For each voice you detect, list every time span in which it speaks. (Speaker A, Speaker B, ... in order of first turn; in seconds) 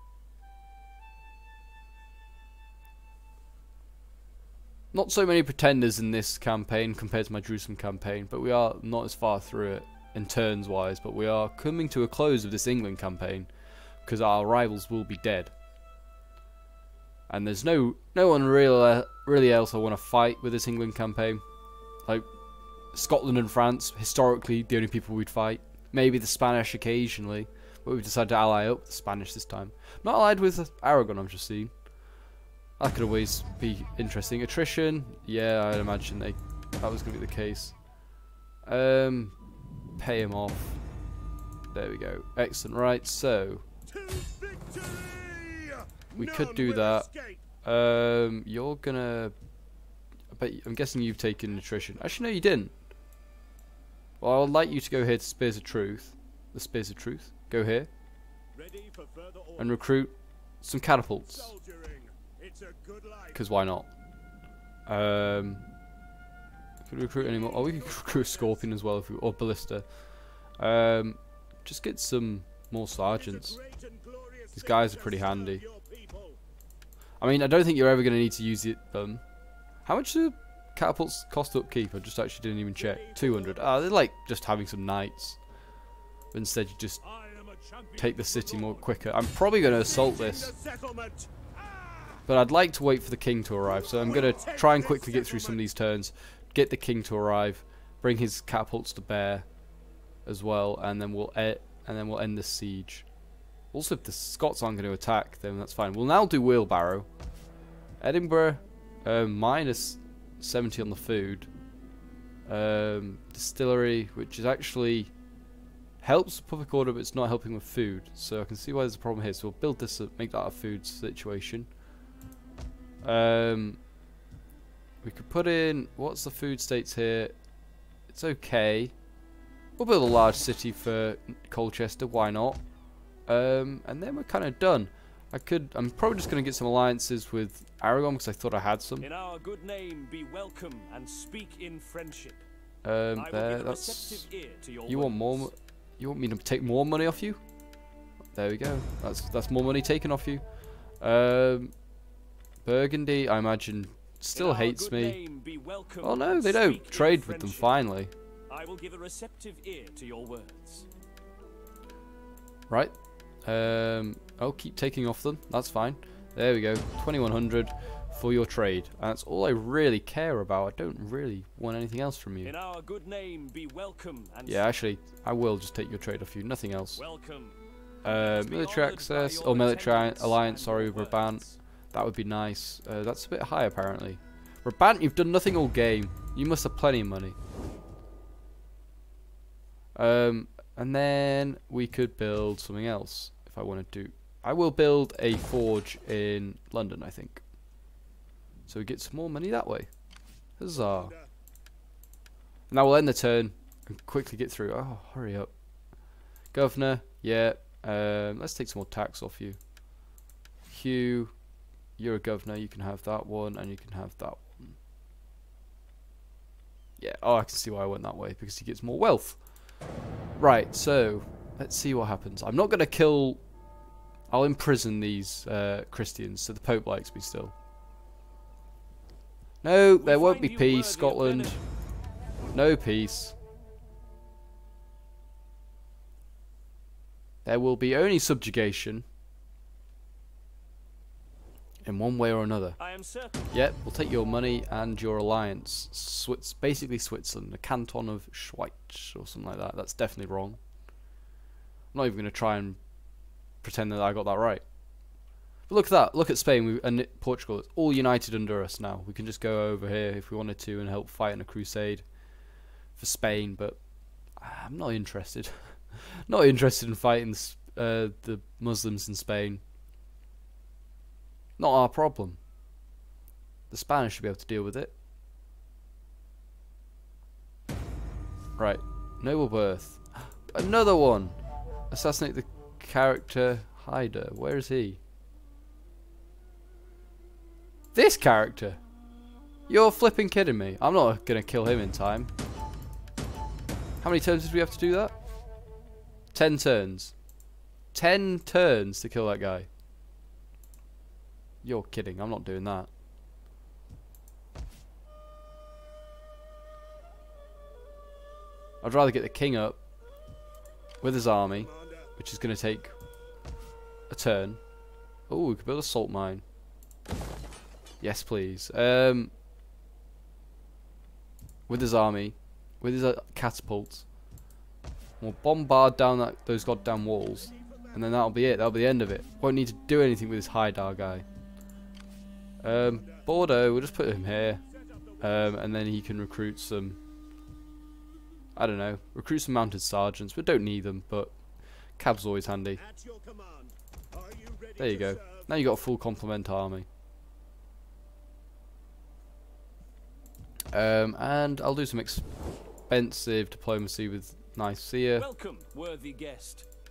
Speaker A: 4.9-13.5, 14.0-15.5, 17.3-21.4, 22.9-31.7, 32.8-37.7, 38.6-39.3, 40.0-40.8, 41.7-43.6, 46.1-47.1, 47.6-49.3, 50.3-52.7, 54.2-57.9, 59.6-61.5, 63.3-63.9, 64.9-65.6, 66.8-69.8, 70.6-73.6, 74.5-75.6, 77.2-79.2, 79.8-85.4, 86.3-87.0, 88.0-90.5, 92.3-99.5, 100.2-103.0, 103.7-107.1, 108.0-111.5, 112.5-115.1, 116.0-121.7, 123.0-123.8, 125.0-127.3, 128.1-128.9, 129.8-132.6, 133.3-139.1, 142.8-144.3, 144.8-147.4, 148.3-150.4, 151.0-151.7, 152.6-155.2, 156.0-158.1, 163.4-172.5, 174.5-177.0, 178.0-187.3, 189.9-197.4, 198.7-199.9, 200.6-201.1, 202.7-205.5, 206.5-209.6, 210.7-211.3, 212.0-214.8, 217.0-219.4, 220.4-223.4, 224.3-227.5, 229.6-231.6, 232.5-233.3, 237.4-239.0, 241.8-242.8, 243.5-250.6, 251.9-252.8, 253.6-254.6, 255.7-262.0, 263.0-263.8, 264.4-269.6, 271.6-272.4, 273.7-274.9, 278.6-281.4, 281.9-285.0, 287.9-288.8, 289.7-292.3, 294.0-295.1, 296.3-297.1, 297.9-299.7, 301.6-302.9, 308.8-309.8, 311.0-312.9, 314.1-314.6, 315.3-316.4, 318.0-319.3, 321.7-324.1, 325.2-331.2, 332.6-334.6, 335.2-337.0, 338.6-341.3, 342.0-342.8, 344.8-346.9, 350.7-352.3, 352.9-355.3
Speaker B: 43.9-47.4, 51.5-52.3, 58.5-59.8, 61.1-63.5, 67.1-68.7, 73.1-76.4, 82.8-84.0, 89.6-92.2, 93.7-95.7, 200.7-201.3, 311.5-312.1, 327.4-328.1, 332.9-333.3, 334.6-335.7, 342.6-345.6
Speaker C: 139.0-142.4, 143.2-145.5, 154.3-157.7, 158.5-160.9, 172.4-174.7, 176.9-181.6, 230.0-231.6, 242.8-243.4, 355.2-356.7